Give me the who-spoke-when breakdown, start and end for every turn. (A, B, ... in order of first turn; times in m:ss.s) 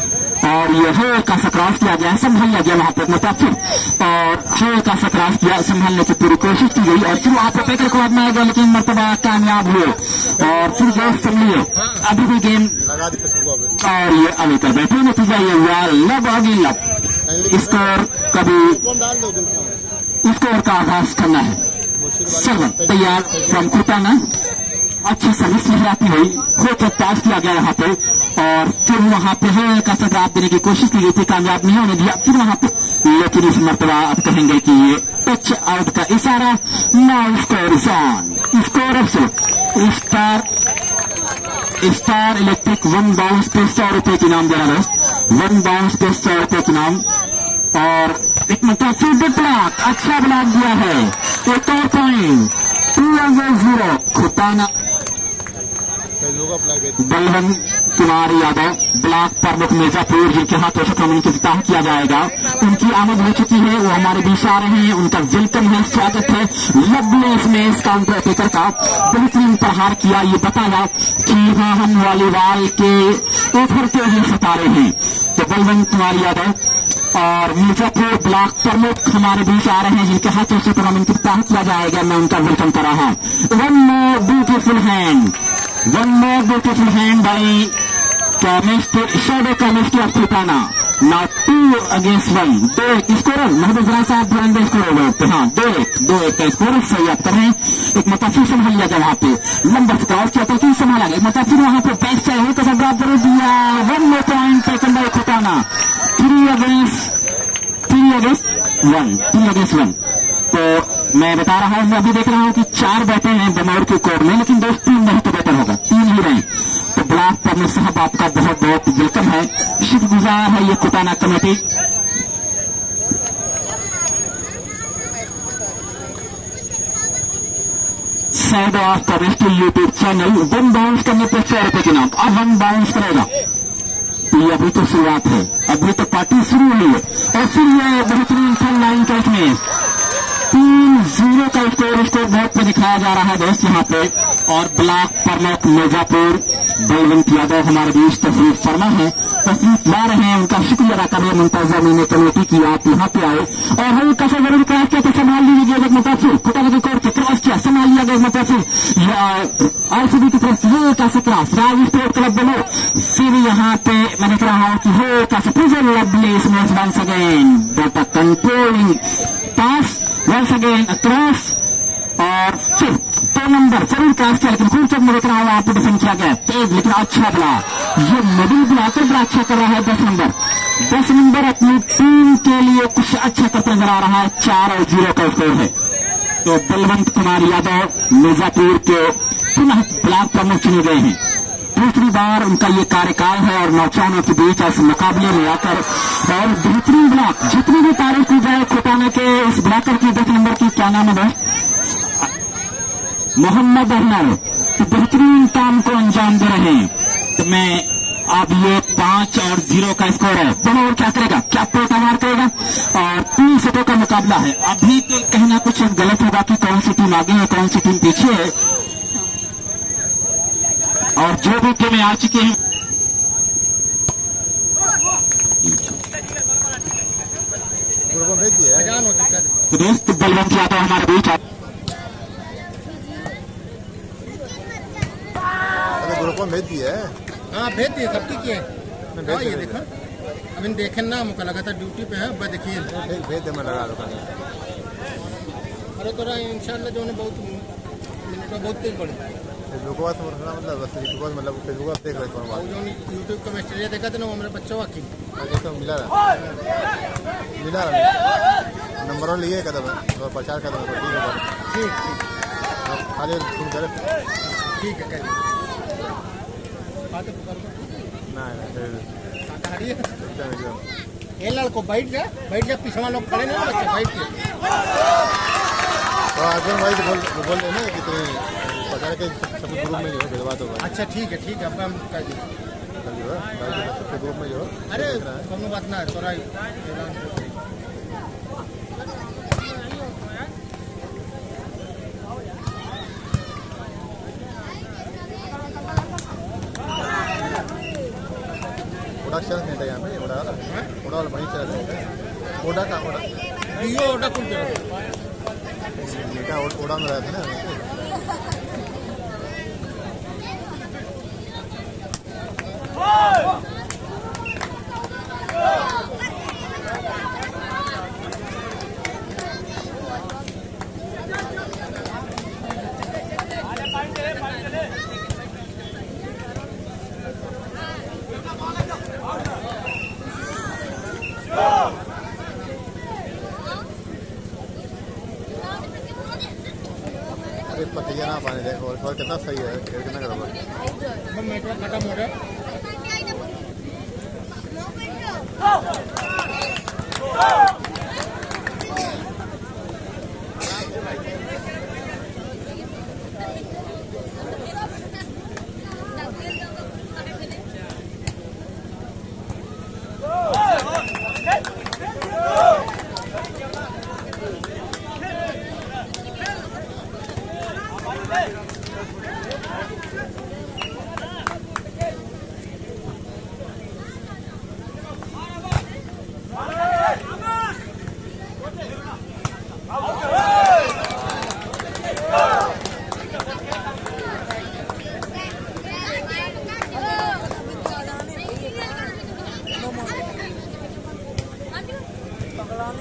0:00.4-0:12.8 A
0:12.9-0:13.7 B
0:13.8-0:18.8 A
0:18.9-0:19.8 B
0:20.2-0:21.6 A
0:22.0-0:23.4 B
0:22.3-0:24.2 A
0:25.0-0:40.5 A
0:41.8-0:47.0 A
0:47.7-0:54.7 A
0:56.2-0:57.0 B
0:57.0-1:16.6 A
1:17.1-1:27.8 A
1:28.4-1:47.1 A
1:47.9-1:50.0 A
1:50.5-2:01.6 A
2:08.3-2:13.3 A
2:14.3-2:19.6 A
2:20.5-2:49.0 A
2:49.6-2:51.6 A
2:52.2-3:05.7 A
3:06.4-3:11.2 A
3:11.8-3:21.4 A
3:23.4-3:38.6 A
3:41.2-3:42.6 A
3:45.6-3:46.0 A
3:48.1-3:49.0 B
3:48.9-3:49.5 C
3:49.7-3:51.4 A
3:56.0-3:57.1 B
3:57.5-3:58.7 C
3:59.1-3:59.8 B
3:59.3-3:59.8 C
4:00.6-4:02.9 C
4:02.8-4:04.3 B
4:06.0-4:07.7 C
4:08.2-4:09.2 C
4:09.7-4:12.7 B
4:12.6-4:15.1 C
4:15.4-4:16.2 B
4:17.6-4:18.1 B
4:19.0-4:21.5 B
4:21.7-4:22.2 C
4:22.8-4:24.0 B
4:24.7-4:25.4 C
4:27.1-4:27.8 C
4:28.3-4:29.1 B
4:29.5-4:30.1 C
4:30.2-4:30.8 B
4:31.4-4:34.4 C
4:36.4-4:41.0 B
4:40.9-4:42.4 C
4:43.0-4:45.5 B
4:45.0-4:47.5 C
4:59.2-5:02.0 B
5:02.6-5:03.3 B
5:03.7-5:04.8 C
5:06.0-5:07.8 B
5:37.7-5:40.5 B
5:41.2-5:42.3 C